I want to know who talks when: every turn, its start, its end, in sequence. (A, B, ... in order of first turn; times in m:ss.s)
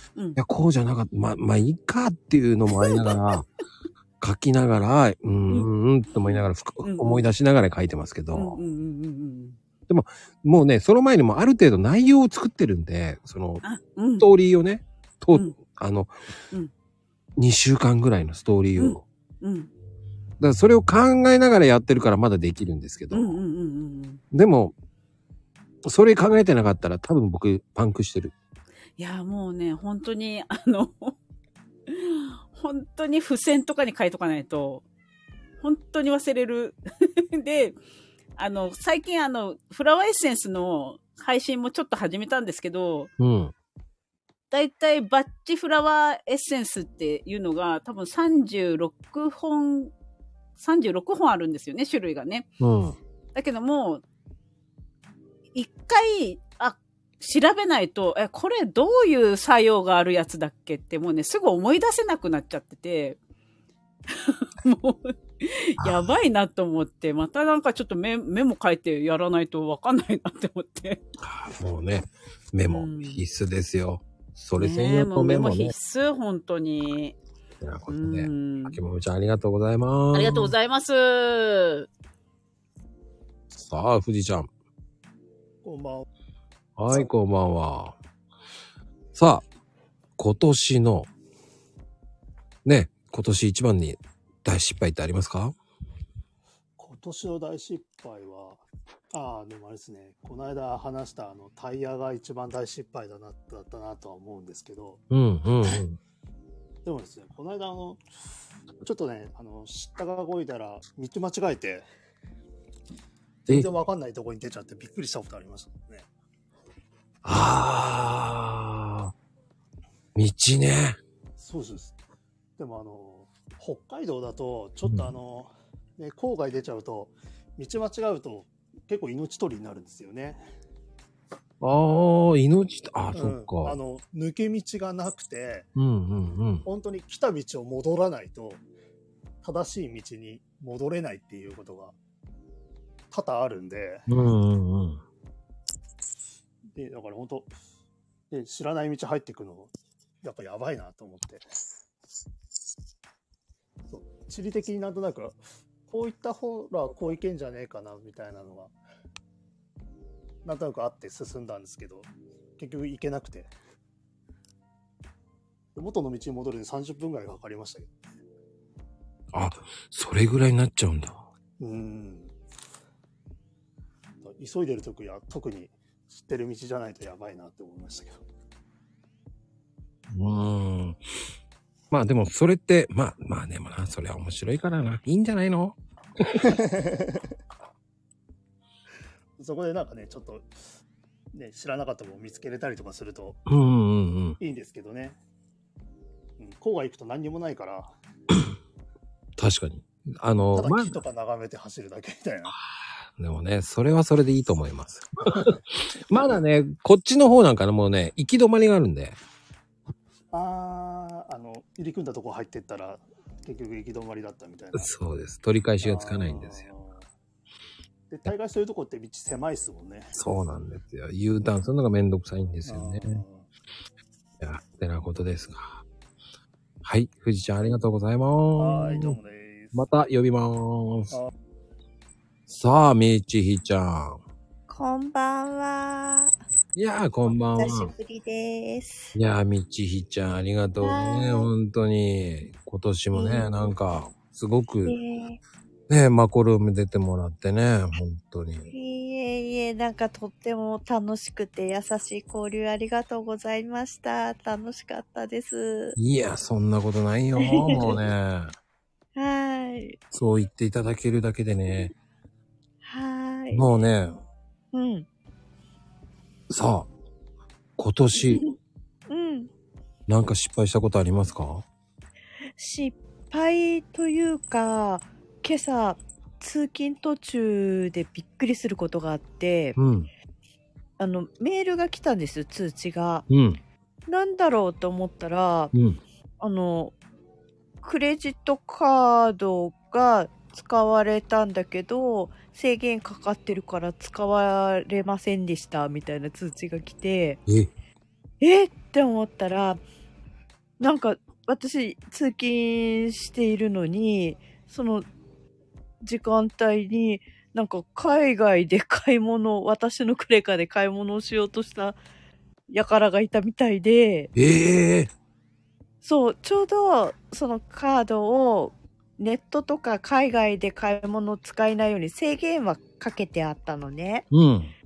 0:00.4-0:03.4 A
0:02.8-0:03.2 B
0:04.2-0:08.6 A
0:05.5-0:07.2 B
0:08.3-0:09.6 B
0:09.9-0:13.6 A
0:13.6-0:14.3 B
0:14.2-0:16.1 A
0:15.3-0:15.6 B
0:17.4-0:19.0 A
0:18.8-0:19.7 B
0:20.4-0:23.4 A
0:23.1-0:24.2 B
0:24.3-0:24.7 A
0:25.8-0:28.3 A
0:29.0-0:31.1 B
0:31.9-0:34.8 B
0:35.6-0:36.8 B
0:37.3-0:37.7 B
0:38.4-0:43.1 B
0:43.2-0:43.5 A
0:44.5-0:49.9 B
0:50.6-0:52.5 B
0:52.6-0:53.0 A
0:53.3-0:54.0 B
0:55.5-1:03.2 B
1:04.1-1:11.0 B
1:05.8-1:06.1 A
1:11.2-1:15.7 A
1:12.7-1:13.2 B
1:14.6-1:17.2 B
1:17.6-1:20.5 A
1:17.9-1:18.8 B
1:20.1-1:21.9 B
1:23.5-1:24.5 A
1:25.6-1:26.0 C
1:26.8-1:28.0 A
1:29.1-1:29.4 A
1:30.2-1:31.1 A
1:32.6-1:35.5 A
1:36.8-1:45.0 C
1:45.1-1:46.0 A
1:46.8-1:48.0 C
1:48.8-1:51.8 C
1:53.5-1:56.1 C
1:57.2-1:59.1 A
2:00.2-2:01.0 A
2:01.4-2:02.0 C
2:02.6-2:10.4 C
2:04.8-2:05.1 A
2:11.6-2:13.8 A
2:13.1-2:15.7 C
2:15.8-2:16.6 A
2:16.6-2:18.6 C
2:19.4-2:22.0 C
2:23.1-2:24.0 C
2:24.1-2:25.0 A
2:26.7-2:27.5 C
2:28.3-2:31.4 C
2:33.9-2:38.7 C
2:40.4-2:43.5 C
2:45.7-2:47.9 C
2:49.3-2:51.2 A
2:51.6-2:52.3 C
2:54.2-2:58.2 C
3:00.1-3:01.0 A
3:01.9-3:06.6 A
3:06.5-3:07.2 C
3:09.4-3:10.5 C
3:11.3-3:13.4 C
3:13.5-3:14.4 A
3:14.4-3:15.2 C
3:16.4-3:17.9 C
3:19.4-3:21.0 A
3:20.5-3:22.5 C
3:23.2-3:29.2 A
3:30.3-3:34.9 C
3:34.7-3:36.7 A
3:35.8-3:37.1 C
3:38.1-3:40.1 C
3:40.1-3:43.2 A
3:42.6-3:43.5 C
3:44.4-3:45.8 A
3:46.8-3:49.2 A
3:48.6-3:49.8 C
3:49.7-3:51.2 A
3:52.5-3:54.2 A
3:54.7-3:56.3 D
3:56.7-3:57.9 A
3:57.5-3:59.1 D
3:59.1-4:05.0 A
4:00.8-4:01.5 D
4:03.1-4:03.7 D
4:04.8-4:05.4 D
4:05.9-4:08.7 A
4:08.7-4:16.0 D
4:15.9-4:18.5 A
4:17.4-4:18.0 D
4:19.2-4:20.0 D
4:20.1-4:21.9 A
4:22.8-4:23.6 D
4:23.5-4:24.2 A
4:24.7-4:25.0 D
4:26.5-4:26.9 A
4:27.8-4:28.4 A
4:29.1-4:29.5 D
4:30.1-4:31.6 A
4:32.6-4:39.8 D
4:39.8-4:40.1 A
4:41.0-4:43.2 D
4:43.3-4:43.6 A
4:44.1-4:45.7 D
4:45.7-4:46.0 A
4:46.4-4:46.9 D
4:47.8-4:57.4 D
4:58.4-4:59.8 D
5:00.8-5:05.0 D
5:06.0-5:12.0 D
5:12.7-5:14.3 D
5:14.3-5:15.1 A
5:16.0-5:24.2 D
5:24.3-5:24.7 A